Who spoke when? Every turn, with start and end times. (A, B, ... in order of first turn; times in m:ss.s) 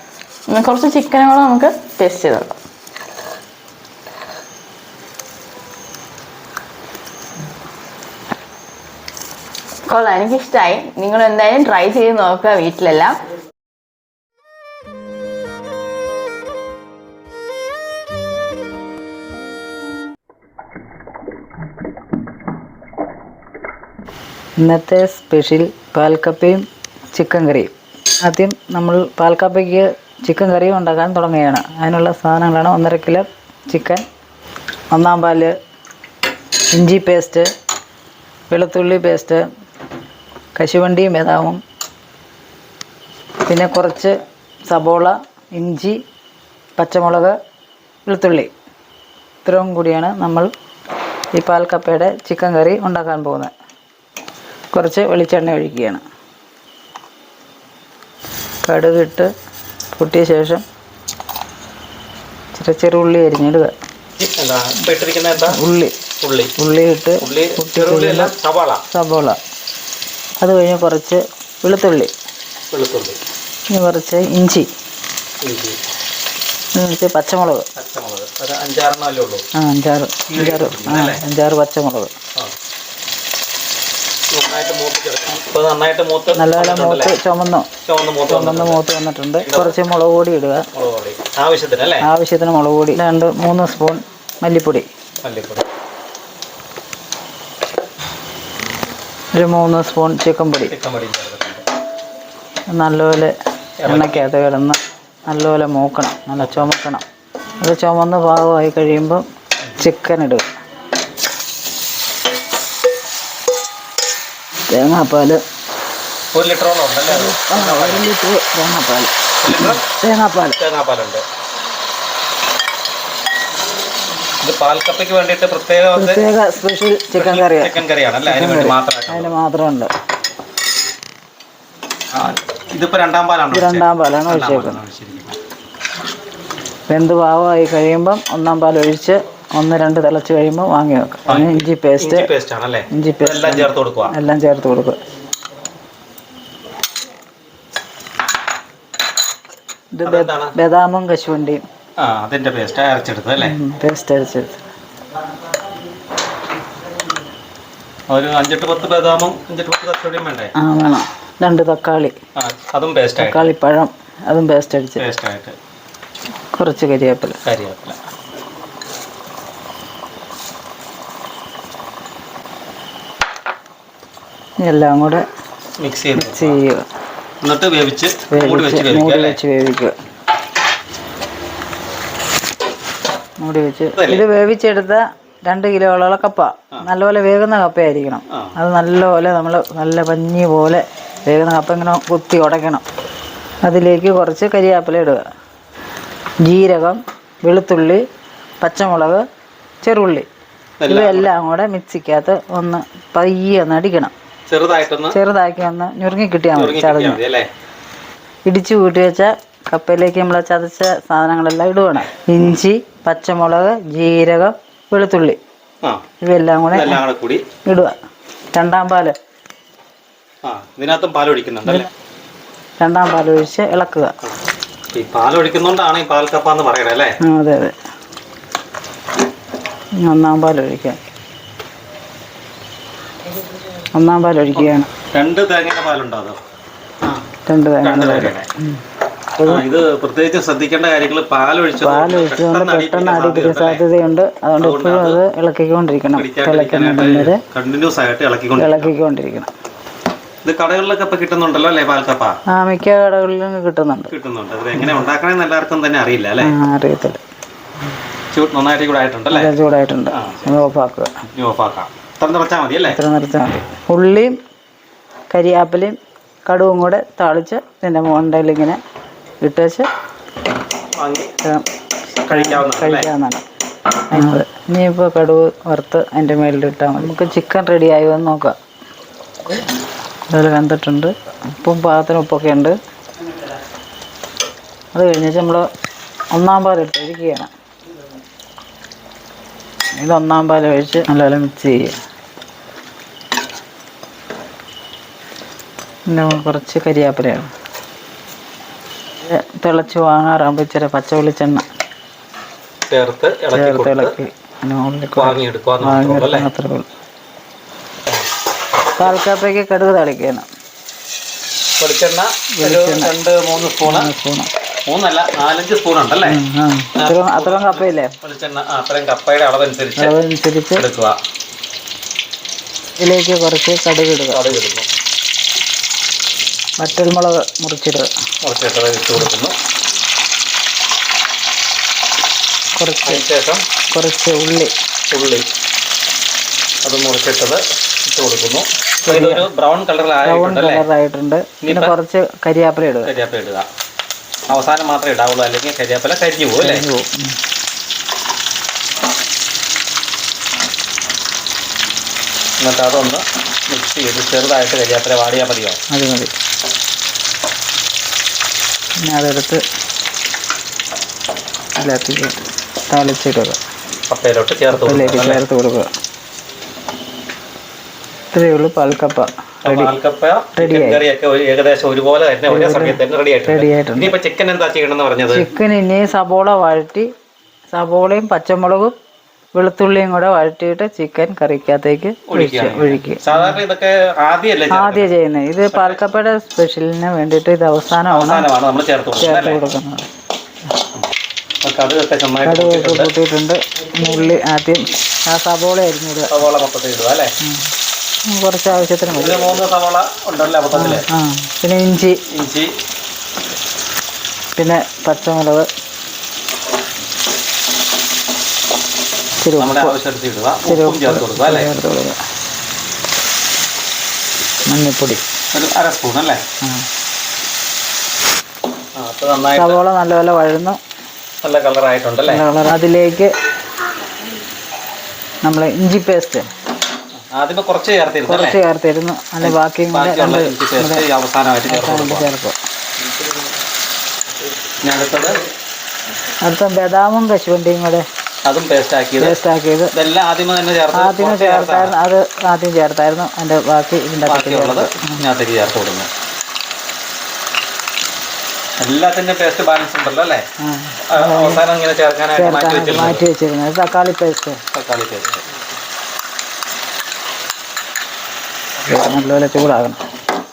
0:00.5-0:02.5 A
0:09.9-0:13.2 A
0:24.6-0:34.0 B
0:34.9-0:35.5 B
0:36.7-0:37.5 B
0:38.5-0:39.4 B
0:40.6-0:41.6 B
0:43.4-0:44.1 B
0:44.7-0:46.0 B
0:46.8-0:47.3 B
0:48.0-0:48.5 B
0:49.4-0:50.5 B
0:51.4-0:53.5 B
0:54.7-0:56.0 B
0:58.6-0:59.3 B
0:59.9-1:00.6 B
1:02.5-1:03.7 B
1:04.2-1:05.6 C
1:05.5-1:05.9 B
1:06.2-1:06.5 C
1:06.6-1:08.3 B
1:07.2-1:08.8 C
1:08.9-1:09.4 B
1:10.4-1:12.1 B
1:12.7-1:13.2 C
1:13.7-1:14.7 B
1:15.4-1:15.8 C
1:16.8-1:17.6 B
1:17.7-1:19.4 C
1:19.6-1:22.1 B
1:20.3-1:21.2 C
1:24.3-1:27.2 C
1:26.3-1:27.7 B
1:27.8-1:28.8 C
1:28.3-1:30.7 B
1:29.4-1:29.8 C
1:30.7-1:32.0 C
1:32.0-1:34.9 B
1:35.2-1:35.6 C
1:39.3-1:40.7 B
1:40.7-1:41.6 C
1:42.7-1:43.3 B
1:43.8-1:44.3 C
1:43.8-1:47.0 B
1:46.4-1:46.7 C
1:47.6-1:49.2 B
1:49.8-1:50.4 B
1:54.7-1:55.4 B
1:56.3-1:58.1 C
1:57.1-2:00.6 B
1:59.4-1:59.8 C
2:00.6-2:01.2 C
2:04.4-2:06.2 C
2:05.9-2:09.9 B
2:07.1-2:09.4 C
2:12.1-2:15.4 C
2:13.5-2:14.8 B
2:16.9-2:22.3 B
2:21.3-2:24.1 C
2:22.9-2:25.0 B
2:29.9-2:31.6 B
2:30.0-2:30.5 C
2:32.0-2:33.6 C
2:33.4-2:34.6 B
2:38.1-2:40.5 C
2:40.6-2:42.1 B
2:42.4-2:43.5 C
2:43.2-2:45.0 B
2:45.0-2:45.6 C
2:46.5-2:47.4 B
2:47.4-2:48.0 C
2:54.6-2:55.2 B
2:55.8-2:56.6 C
2:56.2-2:56.8 B
2:57.4-2:59.4 C
2:58.3-2:59.9 B
3:03.4-3:12.8 B
3:04.0-3:04.2 C
3:13.6-3:15.2 B
3:16.4-3:18.0 B
3:18.6-3:19.2 B
3:19.8-3:20.2 B
3:20.8-3:21.3 C
3:20.9-3:24.1 B
3:24.5-3:25.2 C
3:25.1-3:27.2 B
3:26.5-3:27.5 C
3:28.4-3:35.4 B
3:36.2-3:37.0 B
3:36.7-3:37.4 C
3:37.6-3:38.0 B
3:38.5-3:39.1 B
3:40.4-3:41.9 C
3:42.8-3:44.1 B
3:44.9-3:47.1 C
3:47.2-3:47.7 B
3:50.0-3:51.0 B
3:53.9-3:54.9 B
3:54.6-3:56.4 C
3:57.0-3:58.8 B
3:57.8-3:58.5 C
3:59.4-3:59.7 B
3:59.4-4:03.8 C
4:01.8-4:07.4 B
4:04.6-4:05.2 C
4:06.1-4:08.9 C
4:08.6-4:09.5 B
4:10.4-4:12.4 C
4:12.5-4:14.1 B
4:14.1-4:16.5 C
4:16.4-4:17.2 B
4:18.3-4:19.5 C
4:19.3-4:21.1 B
4:20.1-4:20.5 C
4:21.3-4:23.0 C
4:22.9-4:24.4 B
4:25.3-4:28.8 B
4:29.4-4:29.9 B
4:31.0-4:31.3 C
4:32.2-4:33.1 C
4:32.3-4:33.4 B
4:34.1-4:38.5 B
4:40.3-4:42.8 B
4:44.9-4:45.7 B
4:46.3-4:47.5 B
4:50.0-4:52.0 B
4:56.1-4:57.5 B
4:59.2-5:01.6 B
5:02.9-5:04.1 C
5:03.5-5:06.9 B
5:05.2-5:06.5 C
5:09.0-5:10.4 B
5:11.8-5:14.1 C
5:12.6-5:13.1 B
5:13.8-5:14.5 B
5:14.9-5:16.4 C
5:16.2-5:18.1 B
5:17.0-5:20.1 C
5:20.0-5:20.8 B
5:20.8-5:21.2 C
5:23.0-5:24.4 B
5:24.3-5:24.9 C
5:26.8-5:28.1 B
5:28.4-5:29.6 C
5:32.8-5:33.2 B
5:33.0-5:33.6 C
5:33.9-5:34.7 B
5:35.1-5:35.4 C
5:36.8-5:40.8 C
5:39.0-5:39.4 B
5:40.2-5:43.1 B
5:41.6-5:41.9 C
5:43.0-5:43.7 C
5:44.5-5:46.8 C
5:46.6-5:47.4 B
5:52.6-5:55.8 C
5:55.9-5:56.3 B
5:59.0-5:59.6 B
6:01.8-6:02.4 B
6:02.9-6:03.6 B
6:04.1-6:05.4 C
6:04.7-6:05.9 B
6:08.3-6:10.0 B
6:09.6-6:15.4 C
6:10.6-6:11.0 B
6:12.5-6:14.1 B
6:15.3-6:17.1 B
6:17.7-6:18.9 B
6:19.5-6:23.6 B
6:22.3-6:25.1 C
6:24.7-6:28.5 B
6:25.7-6:26.0 C
6:28.1-6:29.6 C
6:29.2-6:30.1 B
6:31.6-6:33.1 C
6:32.4-6:36.4 B
6:36.3-6:37.3 C
6:38.3-6:39.6 B
6:39.1-6:41.0 C
6:40.7-6:42.2 B
6:42.3-6:42.7 C
6:44.6-6:45.7 B
6:49.4-6:49.9 B
6:49.6-6:51.7 C
6:50.6-6:52.2 B
6:54.7-6:55.2 B
6:55.5-6:56.4 C
6:59.0-6:59.8 C
6:59.6-7:00.8 B
7:01.4-7:02.4 C
7:02.2-7:03.3 B
7:05.4-7:06.4 B
7:07.3-7:08.6 C
7:08.3-7:11.0 B
7:09.4-7:12.3 C
7:11.7-7:12.5 B
7:14.8-7:15.3 C
7:16.4-7:18.0 B
7:18.4-7:19.4 C
7:19.2-7:19.9 B
7:19.9-7:22.0 C
7:20.9-7:25.2 B
7:24.2-7:26.1 C
7:28.8-7:30.4 C
7:30.6-7:31.6 B
7:31.1-7:33.2 C
7:32.3-7:34.6 B
7:34.7-7:35.4 C
7:38.8-7:40.0 B